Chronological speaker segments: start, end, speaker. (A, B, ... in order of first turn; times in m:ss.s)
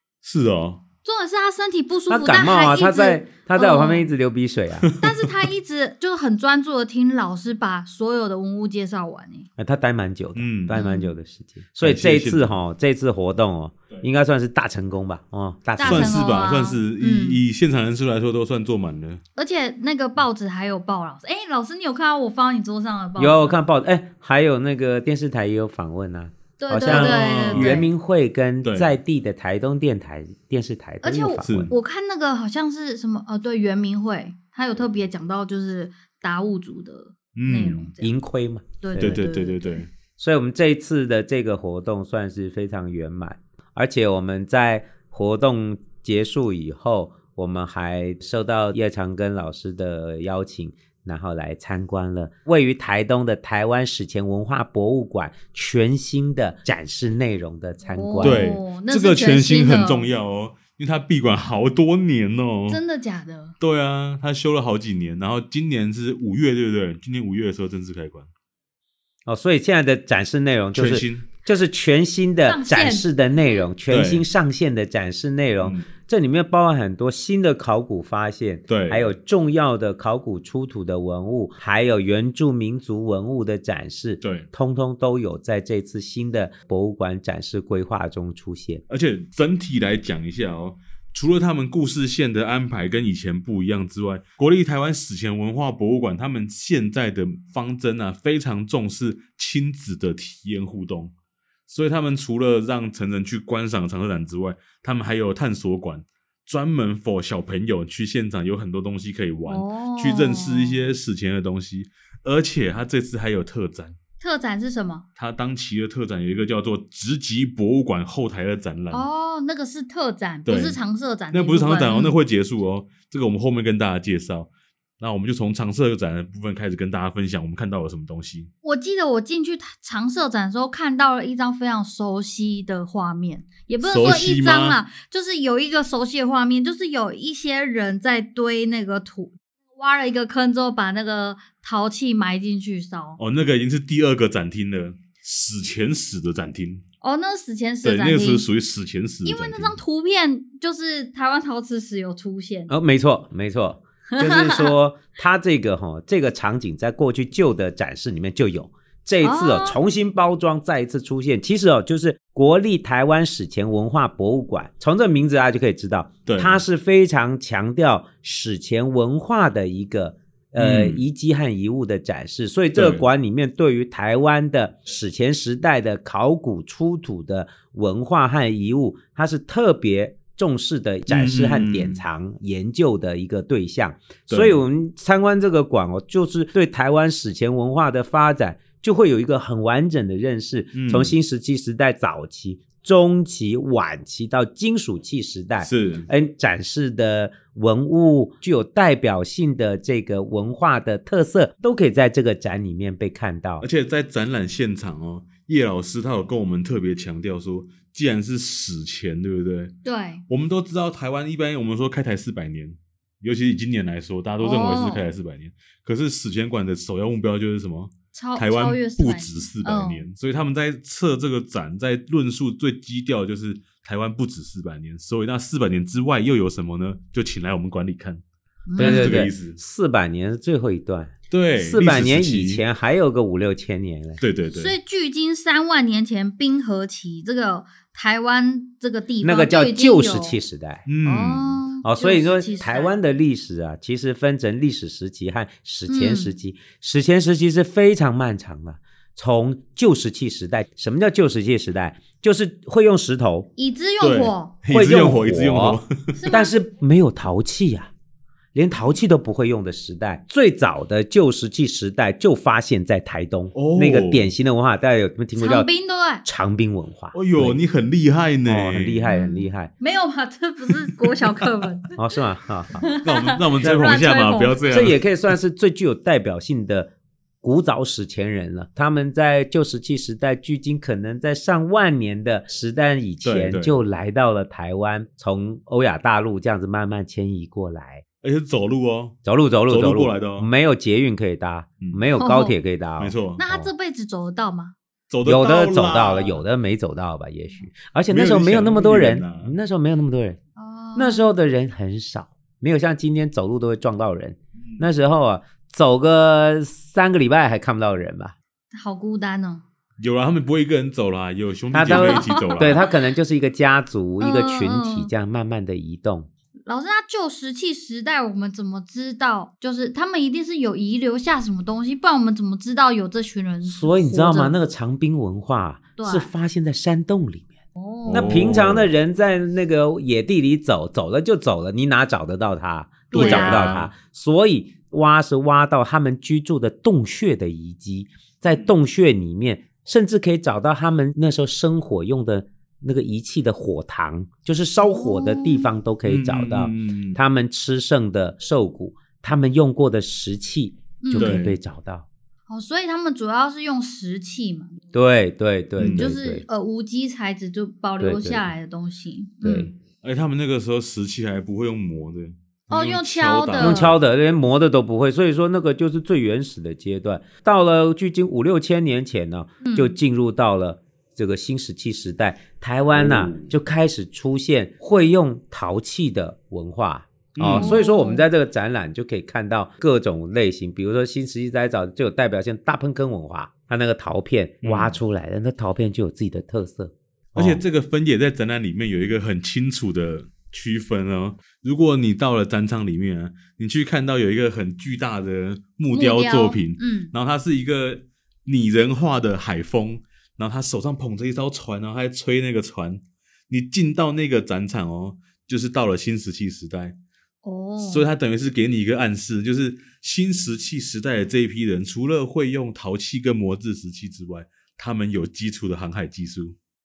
0:00.2-0:00.8 A
0:01.0-0:04.1 B
0:02.1-0:04.9 C
0:05.0-0:09.5 B
0:09.6-0:16.2 C
0:10.4-0:10.8 A
0:10.7-0:11.1 B
0:11.8-0:12.6 A
0:15.8-0:17.4 B
0:15.8-0:19.2 A
0:19.4-0:23.6 B
0:23.2-0:31.7 C
0:26.6-0:27.9 B
0:26.7-0:27.8 A
0:28.6-0:28.9 A
0:31.0-0:38.1 B
0:31.4-0:31.7 A
0:37.4-0:37.9 A
0:38.0-0:39.2 C
0:38.8-0:39.7 B
0:39.0-0:39.9 A
0:40.2-0:58.4 C
0:57.9-1:00.0 B
0:58.2-1:02.8 A
1:02.7-1:03.5 B
1:03.6-1:08.3 A
1:09.3-1:28.8 C
1:10.7-1:11.3 A
1:12.4-1:13.6 B
1:13.9-1:14.2 A
1:18.7-1:19.1 A
1:24.2-1:24.5 A
1:28.9-1:41.1 A
1:41.7-1:54.0 A
1:49.4-1:50.9 B
1:54.2-1:55.1 B
1:55.2-1:59.1 A
1:58.9-2:02.2 B
2:00.5-2:00.8 A
2:01.3-2:04.5 A
2:05.0-2:08.5 A
2:08.6-2:23.2 B
2:13.8-2:14.8 A
2:23.2-2:26.8 A
2:27.0-2:28.4 B
2:27.8-2:29.8 A
2:29.2-2:32.7 B
2:32.7-3:23.6 C
2:34.1-2:34.8 B
2:39.2-2:39.8 B
2:46.2-2:46.6 A
2:50.6-2:51.0 A
2:52.8-2:53.0 A
3:01.1-3:02.0 A
3:04.3-3:04.6 A
3:10.8-3:11.1 A
3:15.6-3:16.1 A
3:23.6-3:29.8 A
3:29.8-3:30.2 B
3:30.3-3:48.2 A
3:34.4-3:35.1 B
3:38.1-3:40.0 B
3:48.7-3:49.2 B
3:48.8-3:49.6 A
3:48.8-3:54.2 C
3:51.3-3:52.6 A
3:54.2-3:54.8 A
3:54.5-4:00.4 B
3:59.2-4:00.9 C
4:00.9-4:01.6 A
4:01.0-4:03.0 B
4:01.8-4:13.5 C
4:05.9-4:06.3 B
4:13.6-4:14.6 B
4:14.0-4:16.2 A
4:14.7-4:17.9 C
4:16.2-4:16.5 B
4:18.5-4:25.7 C
4:23.5-4:24.3 A
4:25.4-4:26.2 B
4:26.2-4:27.6 C
4:27.1-4:29.1 A
4:28.4-4:29.7 C
4:29.1-4:32.0 B
4:32.0-4:32.9 C
4:32.8-4:34.6 B
4:33.0-4:35.0 A
4:34.7-4:36.9 C
4:37.4-4:48.0 C
4:43.2-4:43.8 A
4:48.2-4:49.2 A
4:49.2-4:53.7 C
4:49.7-4:50.5 A
4:52.2-4:52.5 B
4:53.0-4:53.4 A
4:53.4-4:54.7 B
4:55.1-4:56.4 A
4:55.2-5:00.4 C
4:58.1-4:59.5 A
5:00.6-5:01.3 B
5:01.0-5:08.4 C
5:08.7-5:09.6 B
5:10.0-5:12.9 A
5:11.7-5:16.3 C
5:11.9-5:12.9 B
5:14.2-5:15.1 B
5:16.7-5:24.6 B
5:23.6-5:27.5 C
5:26.0-5:26.3 B
5:27.8-5:28.3 B
5:28.0-5:28.9 A
5:28.1-5:52.1 C
5:33.1-5:33.8 B
5:33.1-5:33.9 A
5:44.8-5:45.7 B
5:46.0-5:47.2 A
5:51.0-5:51.4 B
5:51.2-5:51.6 A
5:52.5-5:54.8 B
5:54.9-5:56.4 C
5:55.8-5:56.1 A
5:55.9-5:59.7 B
5:58.0-5:58.5 C
5:59.4-5:59.7 C
5:59.9-6:04.0 A
6:02.7-6:03.9 B
6:03.6-6:27.6 C
6:09.6-6:09.9 B
6:12.9-6:13.5 A
6:17.4-6:17.8 A
6:17.5-6:18.2 B
6:24.6-6:25.0 A
6:27.4-6:47.0 A
6:35.9-6:37.1 B
6:47.4-6:48.0 B
6:47.8-6:56.6 A